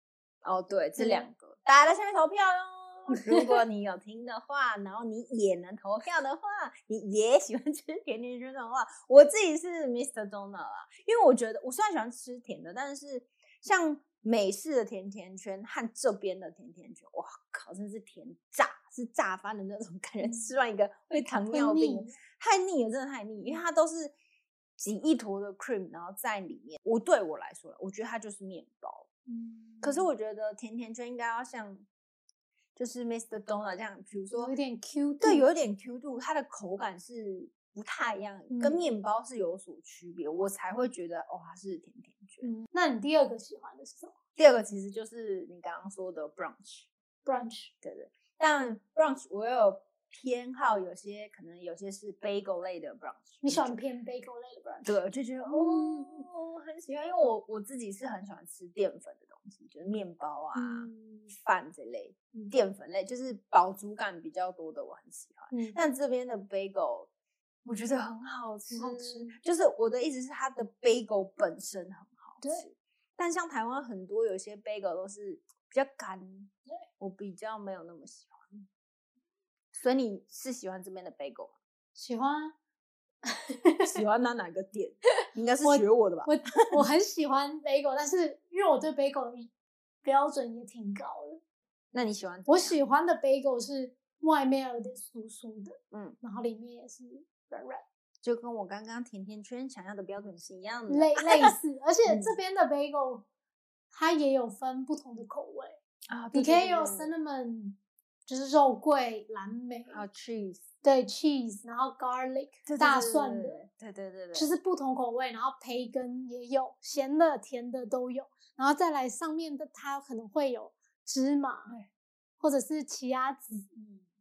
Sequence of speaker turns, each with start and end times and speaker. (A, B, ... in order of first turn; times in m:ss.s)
0:00.4-0:24.1 A
0:01.0-0:01.3 B
0:03.1-0:03.5 B
0:20.2-0:20.5 B
0:21.5-0:22.2 B
0:24.8-0:29.1 A
0:29.3-0:30.1 B
0:29.8-0:31.8 A
0:32.8-0:34.5 A
0:34.4-0:35.4 B
0:35.2-0:42.5 A
0:38.5-0:38.8 B
0:42.4-0:44.1 B
0:44.4-0:46.9 A
0:47.2-0:47.7 B
0:47.8-0:53.8 A
0:53.4-0:56.3 B
0:54.8-1:07.1 A
1:00.5-1:01.3 B
1:05.5-1:05.8 B
1:07.6-1:18.7 A
1:08.7-1:09.4 B
1:19.7-1:21.5 A
1:21.9-1:22.5 B
1:23.3-1:24.0 B
1:23.9-1:26.8 A
1:25.6-1:29.5 B
1:30.0-1:31.4 B
1:31.9-1:32.8 A
1:32.5-1:37.8 B
1:35.9-1:36.2 A
1:38.2-1:41.5 A
1:40.9-1:43.2 B
1:42.0-1:42.4 A
1:43.9-1:45.8 B
1:46.1-1:47.1 A
1:46.3-1:50.0 B
1:49.9-1:50.6 A
1:50.8-1:53.6 B
1:52.6-1:54.5 A
1:54.3-2:01.8 B
2:02.4-2:03.7 B
2:03.8-2:04.0 A